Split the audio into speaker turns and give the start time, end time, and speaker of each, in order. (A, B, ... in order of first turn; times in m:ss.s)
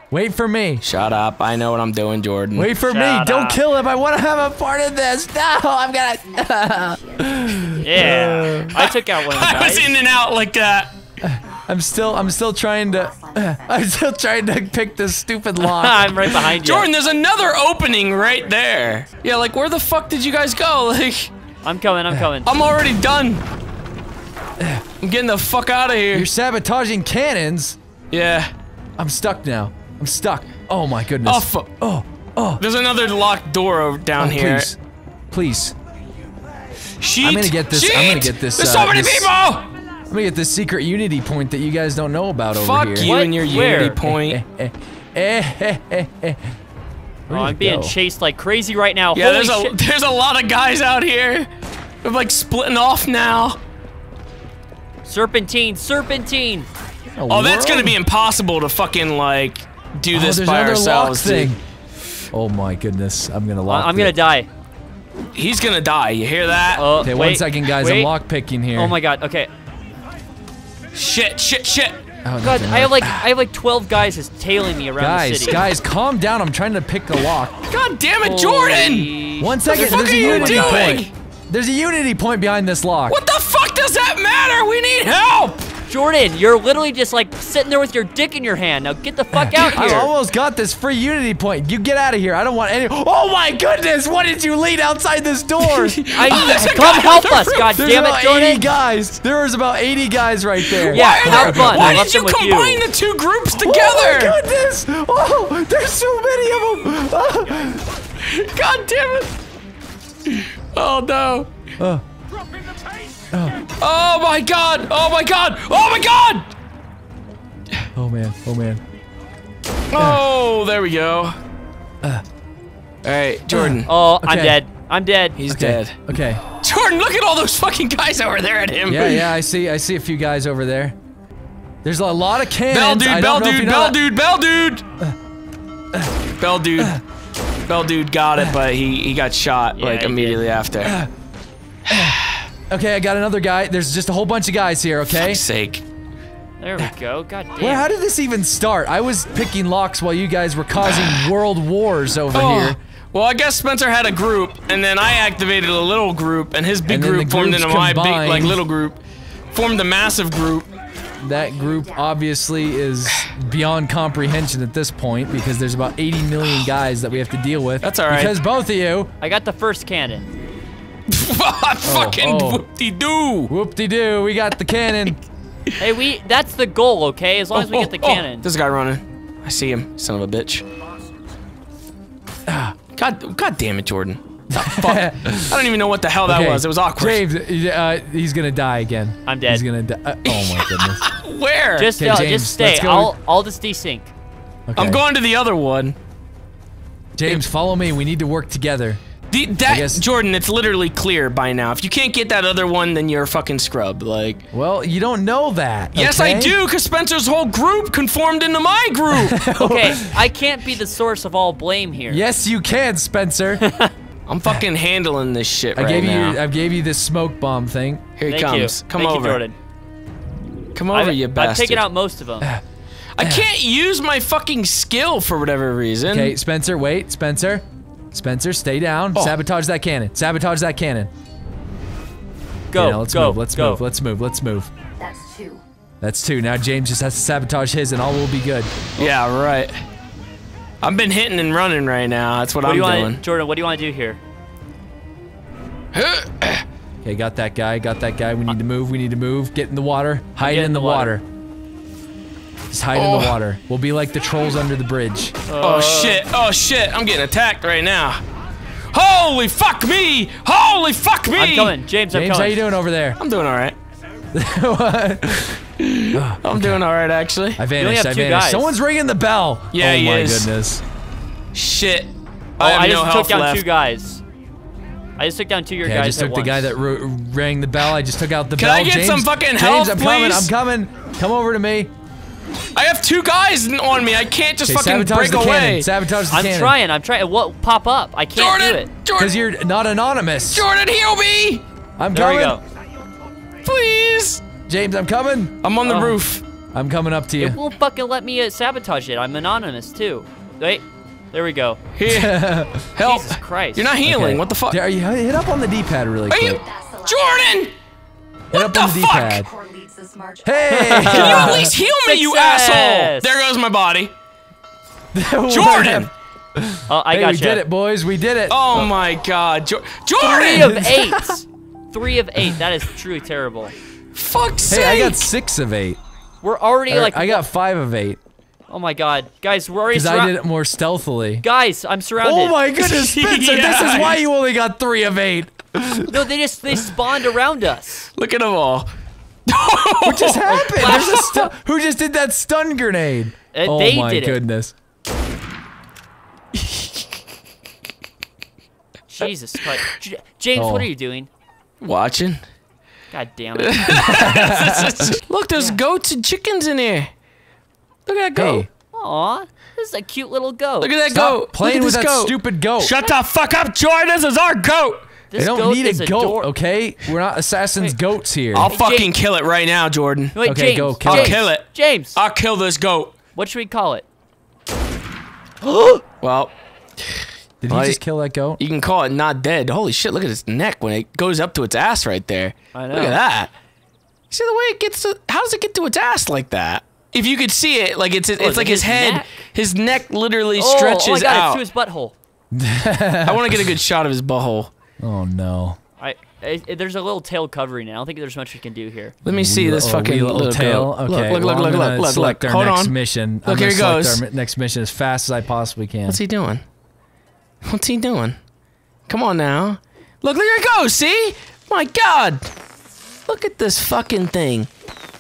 0:00.1-0:00.8 A
0:00.8-0:02.7 B
0:02.6-0:08.8 A
0:02.8-0:03.6 C
0:07.8-0:10.0 C
0:08.7-0:11.0 B
0:11.2-0:16.3 A
0:15.6-0:16.9 C
0:16.4-0:21.3 B
0:21.6-0:22.5 C
0:22.4-0:23.4 B
0:25.0-0:26.3 B
0:26.1-0:27.8 A
0:28.1-0:28.5 B
0:29.0-0:32.6 A
0:31.2-0:31.7 B
0:32.6-0:34.7 B
0:34.2-0:34.8 A
0:35.3-0:35.8 A
0:37.0-0:39.7 B
0:37.2-0:39.3 A
0:40.1-0:46.5 A
0:42.5-0:44.4 B
0:43.0-0:44.0 C
0:47.3-0:48.0 A
0:47.3-0:49.8 C
0:49.2-0:51.5 B
0:52.0-0:53.6 B
0:55.0-0:56.7 C
0:57.1-0:58.0 A
0:57.3-1:01.5 B
1:00.1-1:01.6 A
1:02.3-1:04.2 A
1:03.7-1:04.5 C
1:05.3-1:06.9 B
1:06.8-1:08.1 C
1:07.0-1:09.0 A
1:08.7-1:09.5 C
1:10.9-1:12.0 B
1:12.2-1:13.3 A
1:12.4-1:15.7 C
1:15.0-1:17.6 A
1:17.7-1:19.1 B
1:18.2-1:21.0 C
1:19.4-1:23.2 A
1:19.6-1:21.1 B
1:23.1-1:25.6 B
1:25.9-1:30.1 C
1:29.3-1:36.6 A
1:29.6-1:30.0 B
1:35.6-1:37.8 B
1:36.1-1:38.7 C
1:37.8-1:42.1 A
1:40.6-1:44.4 B
1:40.9-1:42.9 C
1:43.5-1:47.9 A
1:48.2-1:49.4 B
1:50.3-1:51.5 B
1:51.8-1:52.0 A
1:53.3-1:53.6 A
1:53.8-1:56.5 B
1:58.0-1:58.8 A
1:59.9-2:01.4 B
2:00.0-2:00.2 A
2:03.0-2:03.9 B
2:03.5-2:04.6 A
2:03.9-2:05.4 C
2:05.4-2:06.0 B
2:05.5-2:06.4 A
2:06.6-2:09.3 B
2:08.9-2:11.0 A
2:11.8-2:14.0 A
2:12.7-2:14.8 B
2:16.4-2:17.0 B
2:17.7-2:21.0 B
2:19.8-2:20.6 C
2:20.8-2:21.1 A
2:21.9-2:22.2 A
2:22.0-2:22.4 B
2:22.7-2:25.4 A
2:25.1-2:25.8 B
2:26.6-2:27.9 C
2:27.6-2:32.8 A
2:30.8-2:31.3 B
2:32.3-2:39.0 B
2:36.9-2:38.6 A
2:39.5-2:40.7 B
2:41.2-2:49.1 A
2:47.8-2:48.4 B
2:49.2-2:50.3 C
2:51.1-2:53.5 B
2:51.8-2:52.7 A
2:53.5-2:55.2 A
2:55.8-2:58.5 C
2:57.5-3:00.7 B
3:02.5-3:02.8 A
3:03.0-3:07.2 B
3:04.5-3:05.7 A
3:06.2-3:11.1 A
3:09.3-3:09.6 C
3:10.2-3:11.9 B
3:11.8-3:14.1 C
3:11.9-3:13.1 A
3:14.7-3:15.0 A
3:14.8-3:16.0 B
3:17.2-3:19.0 A
3:19.3-3:24.5 B
3:19.7-3:20.0 A
3:24.5-3:26.6 A
3:25.9-3:29.4 B
3:29.1-3:30.2 A
3:29.6-3:32.2 C
3:32.1-3:33.6 A
3:33.6-3:33.9 C
3:34.3-3:36.4 B
3:35.8-3:38.0 A
3:38.2-3:39.4 B
3:38.3-3:39.6 C
3:40.8-3:41.8 B
3:40.9-3:42.5 C
3:43.2-3:46.4 B
3:43.2-3:43.5 A
3:46.1-3:51.1 A
3:52.7-3:53.8 C
3:52.7-3:54.7 A
3:55.0-3:55.6 D
3:56.0-3:59.1 A
3:59.0-3:59.8 B
4:00.8-4:03.2 B
4:02.6-4:04.2 C
4:05.9-4:06.6 B
4:07.0-4:11.2 A
4:10.4-4:11.2 C
4:12.7-4:15.4 A
4:13.0-4:13.4 B
4:15.5-4:16.2 C
4:15.6-4:18.2 B
4:18.9-4:21.7 B
4:21.3-4:22.6 C
4:22.1-4:23.2 A
4:23.2-4:23.8 B
4:24.3-4:26.8 A
4:25.8-4:27.6 B
4:27.6-4:30.8 A
4:27.8-4:28.8 C
4:29.7-4:30.5 B
4:31.5-4:33.6 B
4:32.6-4:34.2 C
4:35.2-4:36.7 C
4:35.8-4:41.9 A
4:38.6-4:40.5 B
4:42.8-4:45.9 B
4:44.6-4:46.7 A
4:46.3-4:48.9 C
4:48.4-4:49.4 B
4:49.2-4:50.7 A
4:50.5-4:51.6 B
4:52.0-4:52.6 A
4:52.1-4:52.6 C
4:53.6-4:54.4 B
4:54.7-4:55.6 A
4:55.6-4:56.4 B
4:55.8-4:56.2 C
4:56.7-4:57.6 A
4:57.4-5:01.8 C
5:02.0-5:02.4 B
5:02.1-5:02.9 A
5:03.0-5:04.8 B
5:03.0-5:03.9 C
5:04.0-5:06.6 A
5:06.3-5:07.7 B
5:08.5-5:09.5 B
5:08.5-5:09.5 A
5:09.5-5:11.0 D
5:10.4-5:11.7 A
5:10.7-5:13.4 C
5:11.1-5:14.1 B
5:15.1-5:19.0 A
5:15.5-5:16.1 B
5:16.9-5:17.6 C
5:18.5-5:20.7 B
5:20.2-5:21.4 A
5:20.4-5:23.8 C
5:24.1-5:25.3 B
5:24.7-5:26.0 A
5:26.4-5:27.5 C
5:26.9-5:28.2 A
5:28.7-5:30.4 C
5:29.9-5:31.4 A
5:31.4-5:32.6 C
5:32.2-5:36.3 A
5:32.8-5:34.2 B
5:36.1-5:38.1 C
5:38.2-5:38.9 B
5:39.5-5:41.3 B
5:40.0-5:44.7 A
5:40.5-5:41.4 C
5:43.5-5:44.4 C
5:49.1-5:51.3 C
5:50.6-5:50.9 A
5:51.8-5:52.4 B
5:53.1-5:54.3 C
5:53.6-5:57.1 B
5:53.9-5:55.2 A
5:58.1-5:58.6 B
5:58.4-5:58.7 A
5:58.9-6:01.0 C
6:00.8-6:05.1 B
6:01.1-6:03.0 A
6:05.3-6:06.5 C
6:05.4-6:08.8 A
6:08.5-6:10.4 B
6:08.7-6:09.1 C
6:10.4-6:12.2 C
6:10.4-6:11.4 A
6:11.0-6:13.2 B
6:13.4-6:14.0 C
6:15.6-6:16.0 C
6:16.2-6:18.0 B
6:17.6-6:18.6 A
6:18.6-6:23.5 B
6:22.7-6:23.2 C
6:24.3-6:31.6 B
6:28.4-6:29.2 C
6:30.6-6:32.1 C
6:32.5-6:33.7 A
6:33.2-6:34.7 B
6:35.0-6:35.8 A
6:36.0-6:39.2 C
6:39.2-6:44.2 B
6:39.2-6:46.2 A
6:46.1-6:46.6 B
6:47.6-6:48.4 B
6:49.1-6:52.5 B
6:53.3-6:54.7 B